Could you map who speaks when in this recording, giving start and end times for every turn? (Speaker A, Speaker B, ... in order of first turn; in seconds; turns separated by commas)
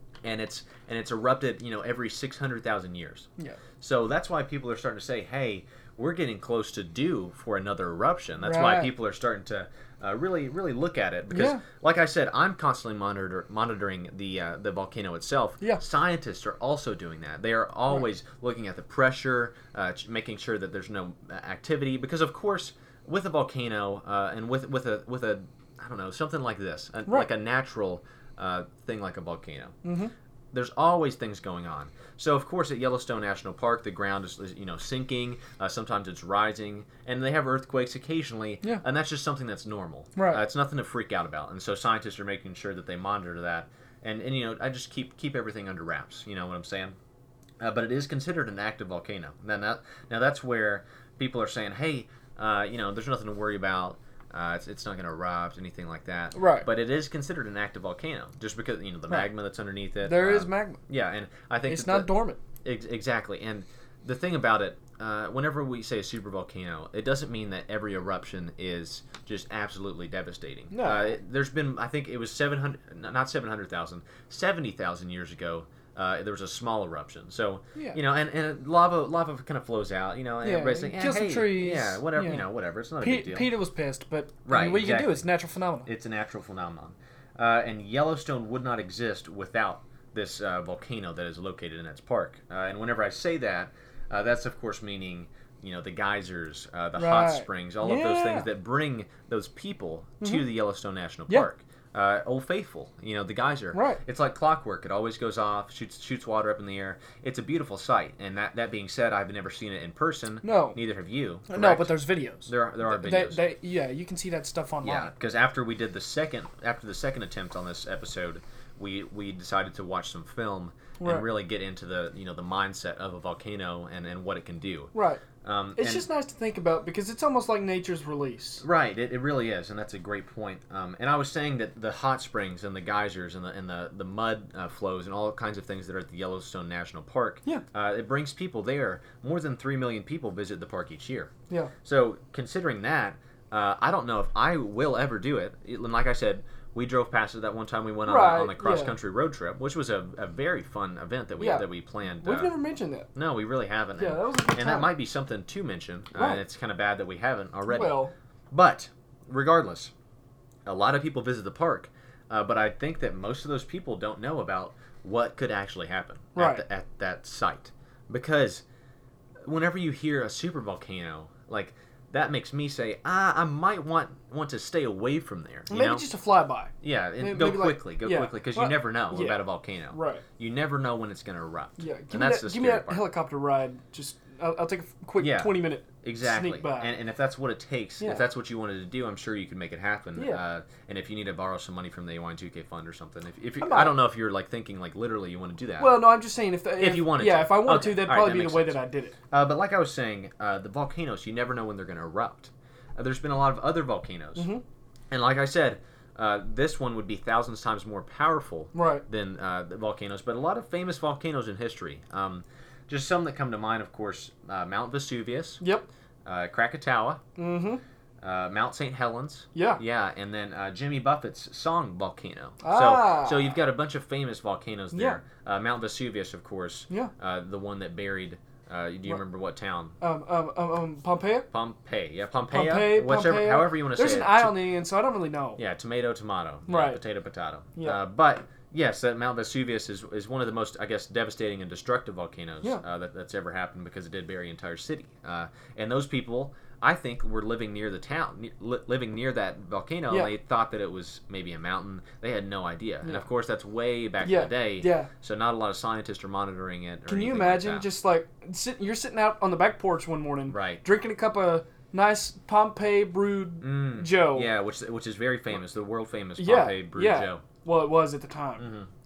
Speaker A: 0.2-29.8, Speaker B: 8.4-8.9, Speaker B: 11.3-11.6, Speaker B: 29.8-30.1, Speaker A: 30.5-47.0, Speaker B: 40.2-40.4, Speaker A: 47.6-62.1, Speaker B: 56.3-56.7, Speaker B: 60.0-60.8, Speaker B: 61.7-62.4, Speaker A: 62.6-83.5, Speaker B: 70.7-71.2, Speaker B: 80.4-82.5, Speaker B: 83.0-85.9, Speaker A: 84.5-85.2, Speaker A: 85.8-113.5, Speaker B: 97.0-98.5, Speaker B: 103.7-104.0, Speaker B: 110.4-110.8, Speaker B: 111.5-115.1, Speaker A: 114.8-126.1, Speaker B: 121.0-121.3, Speaker B: 124.9-125.2, Speaker B: 125.8-128.6, Speaker A: 128.6-141.3, Speaker A: 141.8-152.6, Speaker B: 148.1-149.0, Speaker B: 151.4-151.7, Speaker B: 152.2-153.1, Speaker A: 153.1-158.0, Speaker B: 154.0-154.9, Speaker B: 156.2-156.4, Speaker B: 157.7-158.1, Speaker A: 158.5-159.9, Speaker A: 160.7-168.6, Speaker B: 166.3-166.6, Speaker A: 169.4-176.1, Speaker B: 175.7-180.2, Speaker A: 176.8-183.1, Speaker B: 181.8-187.0, Speaker A: 185.2-196.0, Speaker B: 190.2-190.4, Speaker B: 193.6-194.0, Speaker B: 195.8-199.2, Speaker A: 196.8-198.8, Speaker A: 199.3-204.5, Speaker B: 204.4-204.6, Speaker A: 205.1-215.6, Speaker B: 208.7-209.1, Speaker B: 215.6-215.9, Speaker A: 216.2-217.2, Speaker B: 217.4-217.8, Speaker A: 218.2-230.0, Speaker B: 219.6-219.8, Speaker B: 222.6-223.6, Speaker B: 224.9-225.2, Speaker B: 230.0-231.5, Speaker A: 231.5-234.6, Speaker B: 232.5-235.6, Speaker A: 235.6-257.9, Speaker B: 236.7-237.0, Speaker B: 254.2-255.1, Speaker B: 257.1-264.5, Speaker A: 260.5-260.8, Speaker A: 263.6-267.4, Speaker B: 266.4-268.6, Speaker A: 268.6-268.9